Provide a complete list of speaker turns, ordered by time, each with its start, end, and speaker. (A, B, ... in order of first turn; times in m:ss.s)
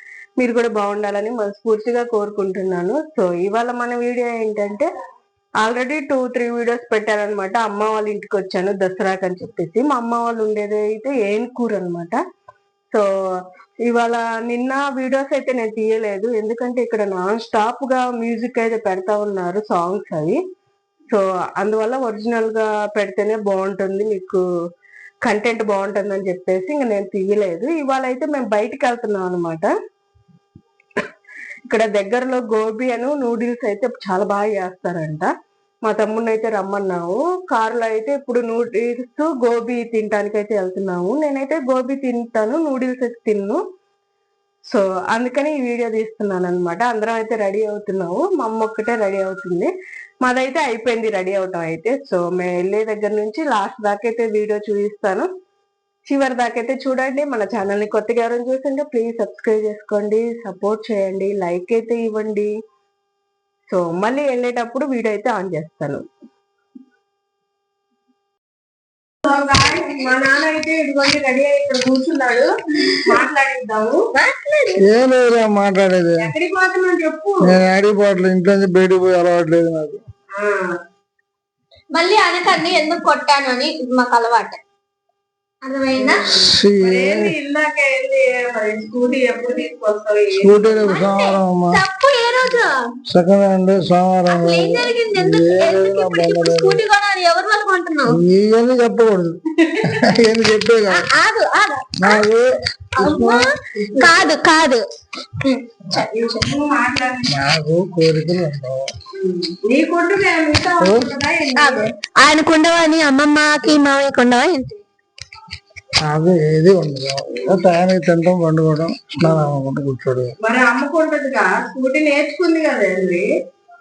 0:00.4-0:04.8 A
0:05.6-0:12.2 A
0:13.8-0:20.4 A
0:21.1-0:24.4 A
0:25.2-0:29.7 A
0:31.7-0:35.3 A
0:35.8-0:43.6 A
0:44.7-0:49.7 A
0:50.2-0:55.3 A
0:56.1-1:02.5 A
1:03.7-1:06.0 A
1:09.2-1:14.0 A
1:14.2-1:14.8 B
1:14.8-1:16.2 C
1:16.2-1:17.5 A
1:17.4-1:20.0 C
1:20.3-1:20.7 A
1:21.9-1:24.6 B
1:25.6-1:26.2 B
1:26.0-1:31.0 A
1:26.5-1:27.3 C
1:30.4-1:31.8 C
1:30.9-1:32.7 B
1:33.1-1:36.8 C
1:34.3-1:38.2 B
1:38.1-1:39.4 C
1:39.9-1:41.1 C
1:40.9-1:42.2 B
1:42.0-1:43.5 C
1:43.0-1:44.8 B
1:43.9-1:44.3 A
1:45.9-1:47.4 A
1:47.3-1:48.9 C
1:49.1-1:51.9 A
1:50.8-1:51.1 C
1:51.6-1:54.8 B
1:56.0-2:00.3 C
1:59.2-1:59.5 A
2:00.4-2:03.3 A